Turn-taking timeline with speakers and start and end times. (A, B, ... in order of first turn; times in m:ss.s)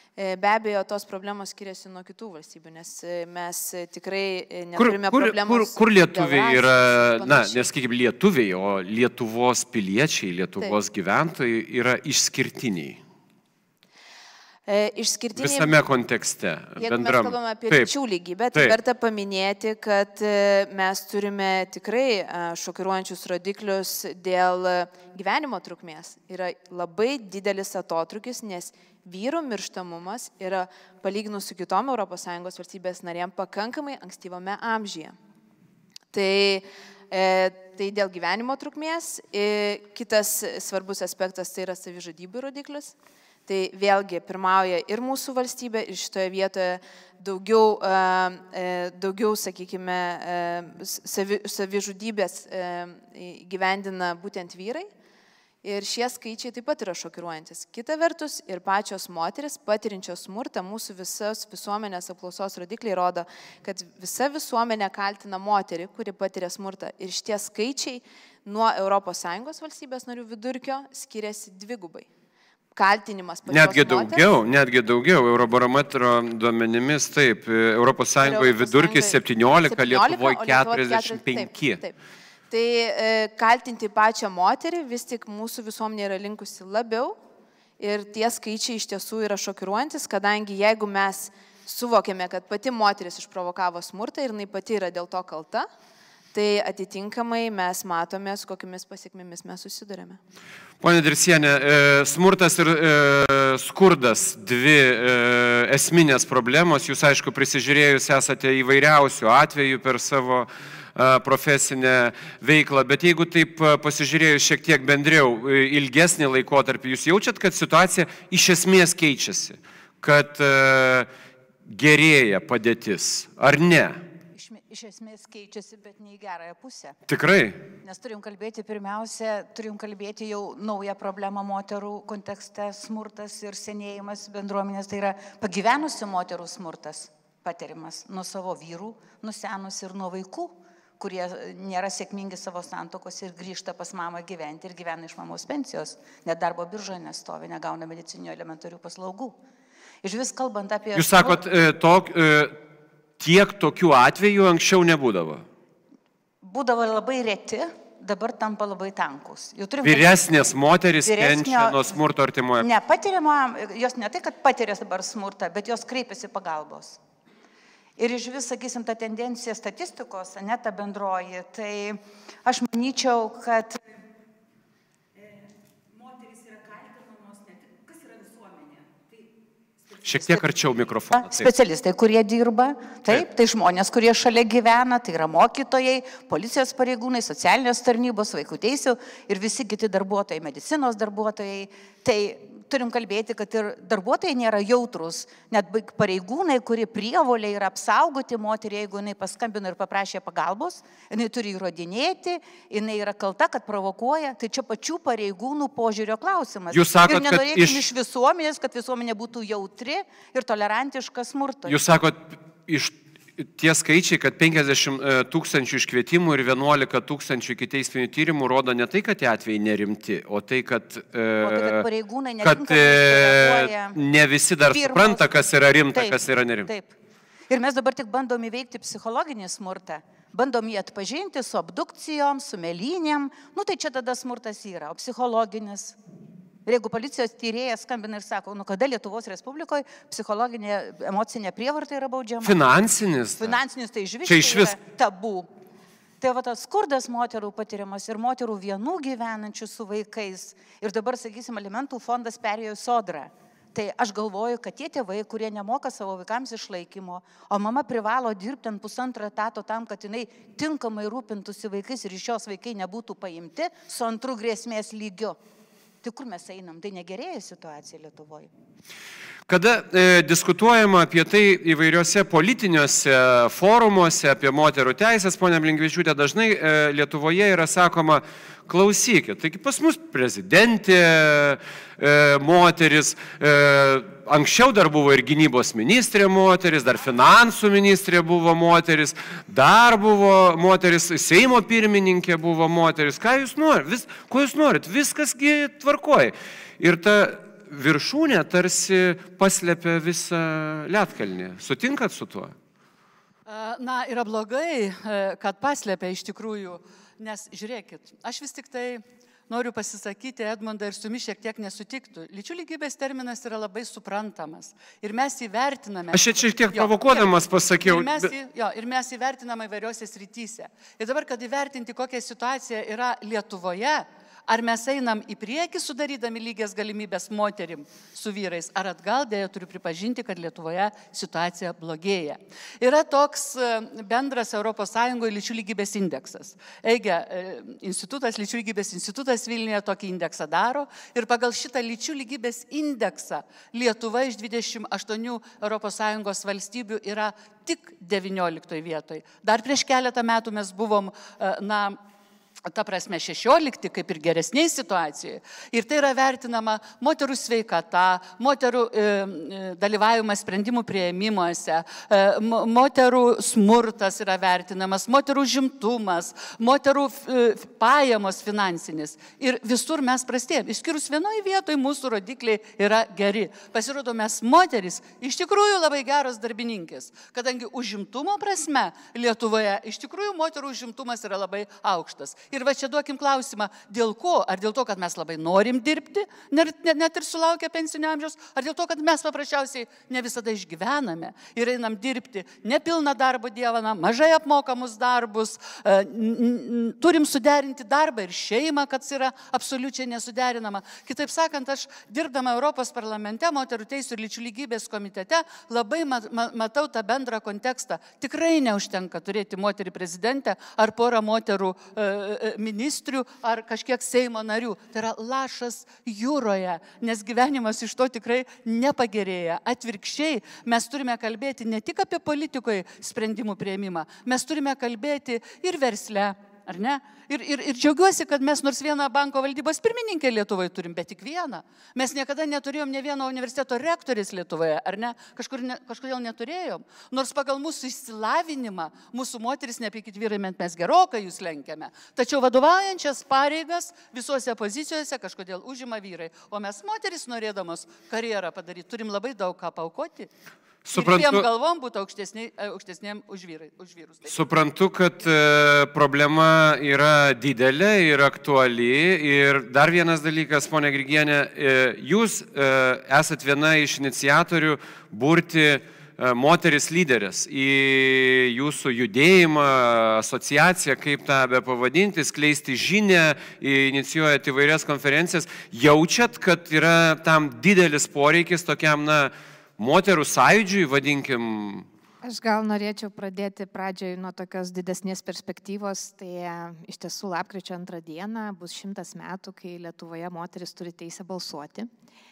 0:00.2-0:07.7 A
0:04.8-0:13.0 B
0:14.7-0:15.7 A
0:15.4-0:17.9 B
0:16.8-0:35.2 A
0:36.1-0:43.0 A
0:43.5-0:54.9 A
0:55.6-1:12.1 A
1:12.8-1:14.3 A
1:13.5-1:21.8 B
1:18.2-1:22.0 A
1:22.5-1:27.2 A
1:27.8-1:35.7 A
1:36.3-1:40.2 A
1:40.8-2:01.1 B
2:01.7-2:04.0 B
2:04.3-2:07.0 C
2:07.1-2:07.6 B
2:07.8-2:29.4 C
2:30.0-2:31.4 C
2:30.9-2:32.6 B
2:33.2-2:35.4 B
2:36.4-2:40.2 C
2:39.8-2:42.7 B
2:41.0-2:41.9 C
2:42.6-2:47.0 C
2:48.0-2:53.8 C
2:56.1-2:58.6 C
3:00.0-3:01.5 B
3:00.1-3:00.4 C
3:01.1-3:31.8 C
3:26.7-3:27.8 B
3:31.7-3:41.8 B
3:41.4-3:44.0 C
3:42.4-3:46.7 B
3:44.7-3:45.3 C
3:45.9-3:47.0 C
3:47.5-3:56.0 C
3:56.7-4:02.6 C
4:02.4-4:03.6 B
4:03.4-4:05.5 C
4:04.2-4:04.8 B
4:06.2-4:25.4 C
4:26.0-4:28.5 C
4:29.5-5:02.6 B
5:03.5-5:52.0 D
5:16.1-5:18.3 B
5:52.7-7:30.3 D
7:30.8-7:31.5 B
7:31.0-7:34.3 D
7:34.3-8:01.9 B
8:02.2-8:11.9 E